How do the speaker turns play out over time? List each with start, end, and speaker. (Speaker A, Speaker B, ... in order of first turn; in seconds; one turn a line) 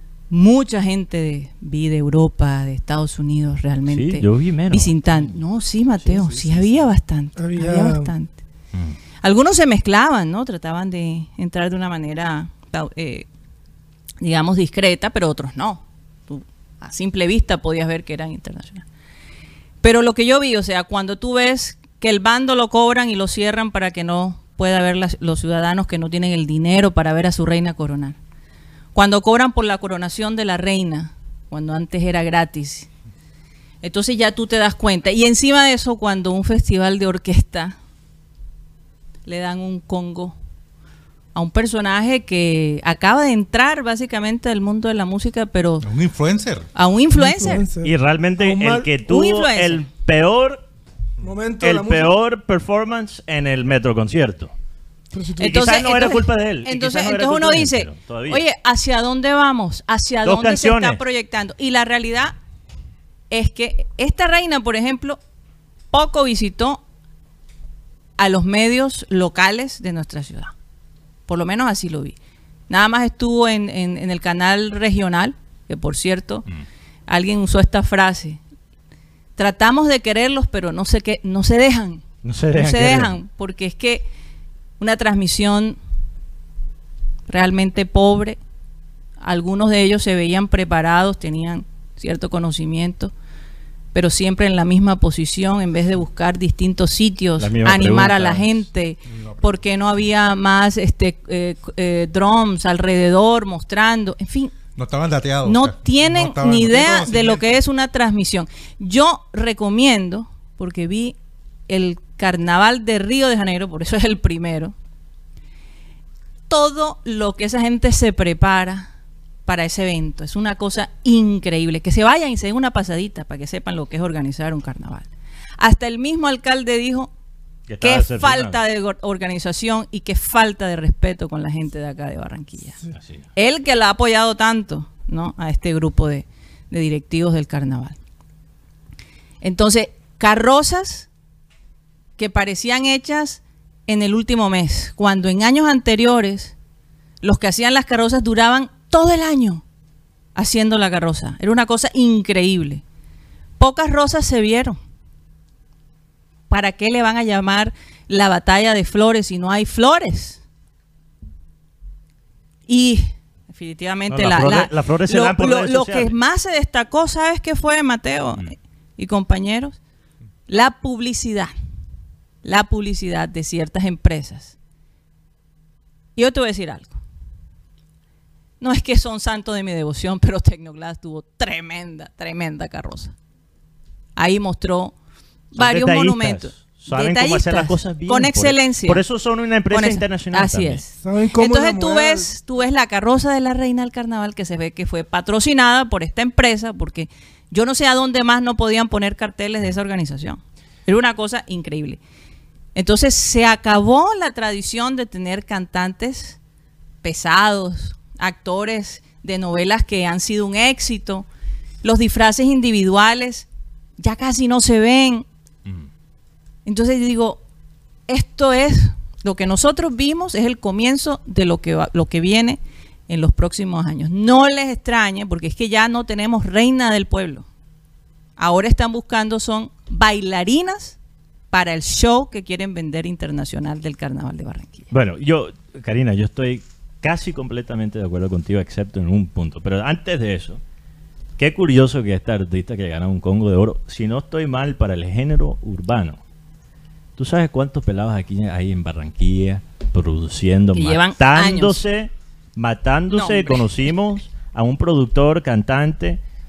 Speaker A: 0.3-8.4
Speaker B: 3.9-5.3
Speaker C: 6.0-6.8
Speaker D: 7.4-8.1
Speaker A: 9.2-13.3
Speaker A: 14.2-18.9
Speaker A: 19.8-28.2
Speaker A: 28.9-32.9
Speaker A: 33.8-37.8
Speaker A: 39.2-40.4
Speaker A: 41.3-45.9
Speaker C: 45.8-46.7
Speaker A: 46.8-47.7
Speaker D: 47.2-48.9
Speaker B: 47.8-50.6
Speaker A: 49.1-49.9
Speaker D: 51.2-52.1
Speaker B: 51.6-54.5
Speaker D: 55.1-55.7
Speaker A: 55.4-62.4
Speaker B: 55.4-58.4
Speaker B: 60.2-61.0
Speaker A: 63.3-65.2
Speaker A: 65.9-66.8
Speaker A: 68.2-70.5
Speaker A: 71.3-72.2
Speaker A: 72.7-76.5
Speaker A: 77.1-78.4
Speaker A: 79.4-84.1
Speaker B: 82.2-83.1
Speaker A: 84.8-85.8
Speaker A: 87.3-88.4
Speaker A: 89.2-93.1
Speaker A: 93.9-104.5
Speaker B: 97.4-98.6
Speaker C: 99.0-99.7
Speaker C: 104.8-107.5
Speaker A: 105.5-111.2
Speaker A: 111.7-114.7
Speaker A: 116.5-118.9
Speaker A: 119.5-125.1
Speaker A: 125.6-127.1
Speaker B: 127.7-128.6
Speaker A: 127.8-132.8
Speaker A: 133.4-138.0
Speaker A: 139.4-141.1
Speaker A: 142.2-146.6
Speaker A: 147.2-149.6
Speaker A: 150.3-152.8
Speaker A: 153.6-154.8
Speaker A: 156.5-160.4
Speaker A: 162.7-169.8
Speaker B: 164.1-166.1
Speaker A: 170.5-171.5
Speaker A: 172.4-174.6
Speaker A: 176.2-177.0
Speaker A: 178.6-183.1
Speaker A: 184.2-184.9
Speaker A: 185.5-189.0
Speaker B: 185.6-190.8
Speaker A: 189.7-202.0
Speaker D: 191.0-192.3
Speaker A: 202.8-206.4
Speaker A: 207.0-211.3
Speaker A: 211.8-213.5
Speaker A: 214.0-215.3
Speaker A: 216.7-217.4
Speaker A: 218.1-227.5
Speaker A: 228.4-231.0
Speaker A: 231.5-234.9
Speaker B: 234.9-240.6
Speaker B: 241.4-246.2
Speaker B: 247.2-256.2
Speaker A: 250.7-251.8
Speaker A: 253.1-253.6